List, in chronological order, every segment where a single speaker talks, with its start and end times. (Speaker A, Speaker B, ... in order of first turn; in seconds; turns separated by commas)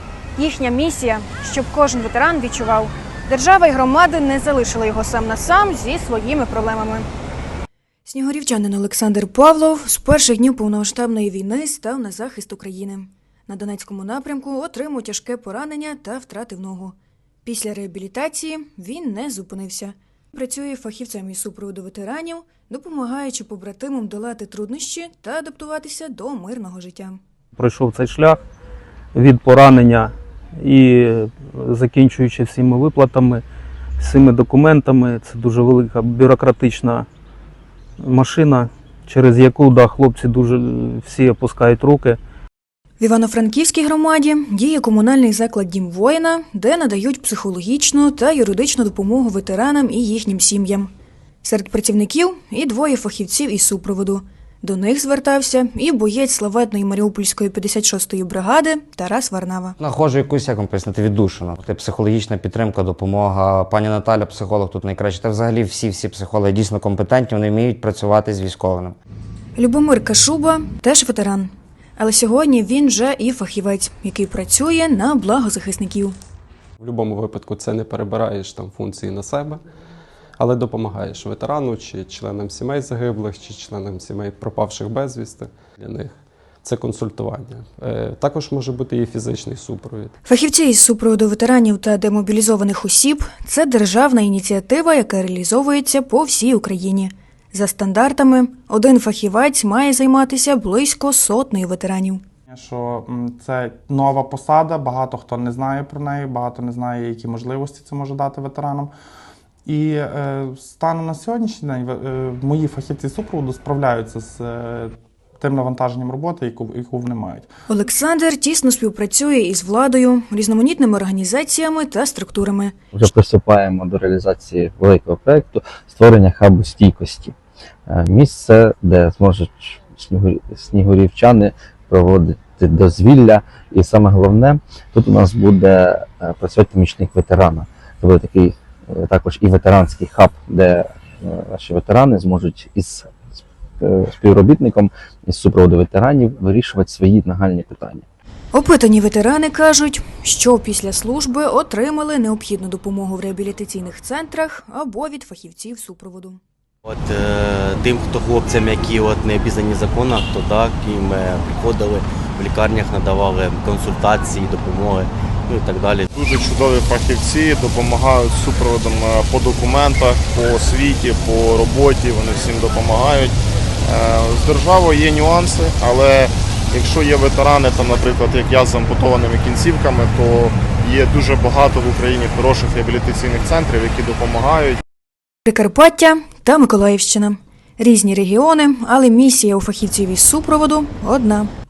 Speaker A: 0.4-7.1, Speaker A: 8.1-27.2, Speaker B: 27.6-28.4, Speaker B: 29.1-33.4, Speaker B: 34.0-37.1, Speaker B: 38.0-42.2, Speaker A: 43.0-50.9, Speaker A: 51.4-59.8, Speaker C: 59.8-69.0, Speaker A: 69.6-76.2, Speaker D: 76.8-79.6, Speaker D: 80.4-90.1, Speaker A: 90.2-102.2, Speaker E: 102.5-108.9, Speaker E: 109.7-117.5, Speaker A: 117.7-122.7, Speaker F: 122.9-127.3, Speaker F: 127.9-143.1, Speaker F: 143.8-148.1, Speaker A: 148.5-156.4, Speaker G: 156.8-166.1, Speaker H: 166.1-184.8, Speaker A: 185.4-191.5